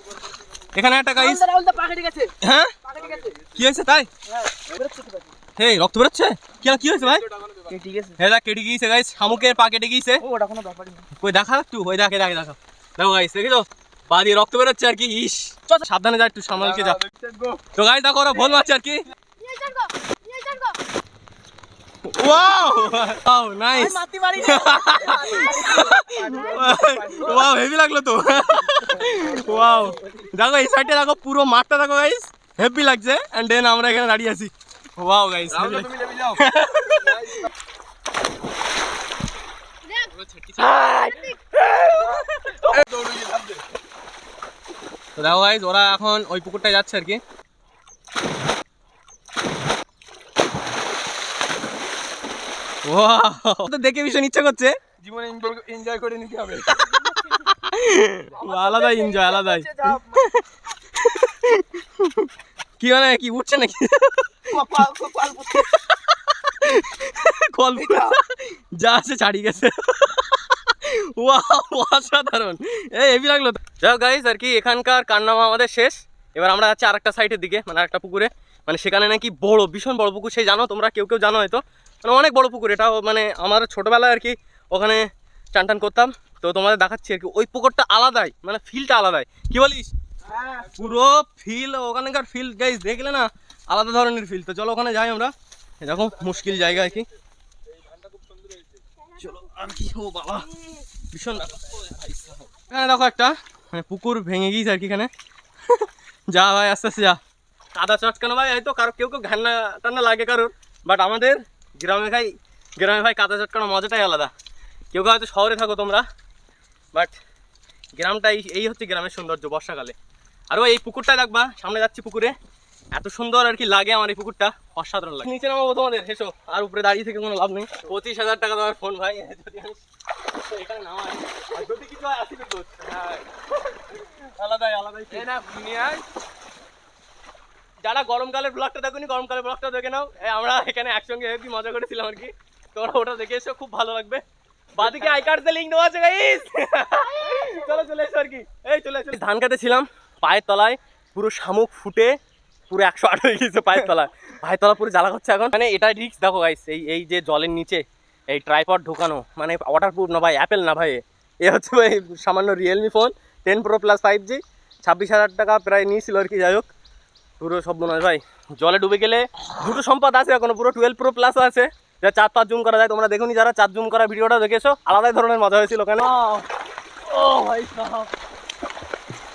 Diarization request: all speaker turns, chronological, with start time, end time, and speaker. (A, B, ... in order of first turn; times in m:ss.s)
0:00.7-0:01.4 A
0:01.2-0:02.3 B
0:02.4-0:02.8 A
0:02.8-0:03.4 B
0:03.6-0:04.1 A
0:04.2-0:05.3 B
0:05.6-0:07.2 A
0:07.3-0:07.6 C
0:07.7-0:08.2 B
0:08.2-0:10.2 A
0:10.2-0:11.1 B
0:11.2-0:17.0 A
0:16.6-0:17.6 C
0:17.8-0:19.0 A
0:19.4-0:20.7 B
0:22.1-0:37.3 A
0:23.8-0:27.5 B
0:28.9-0:30.0 B
0:35.5-0:36.4 C
0:40.1-0:42.8 A
0:42.7-0:43.6 C
0:45.2-0:47.2 A
0:52.8-0:54.8 A
0:55.0-0:56.9 C
0:57.4-1:00.4 A
0:58.3-1:00.2 B
1:01.0-1:02.3 A
1:02.8-1:04.9 A
1:04.5-1:05.7 B
1:05.4-1:29.9 A
1:07.8-1:08.1 B
1:30.3-1:30.7 B
1:30.7-1:37.1 A
1:38.0-1:38.6 C
1:39.2-1:40.5 A
1:41.1-1:45.1 A
1:45.7-1:47.2 A
1:47.7-1:54.3 A
1:54.9-1:56.0 A
1:58.0-1:59.9 A
2:00.5-2:02.3 A
2:02.9-2:15.4 A
2:15.1-2:16.0 C
2:17.8-2:24.2 A
2:24.8-2:32.1 A
2:32.7-2:46.6 A
2:47.4-2:56.4 A
2:57.1-2:58.1 A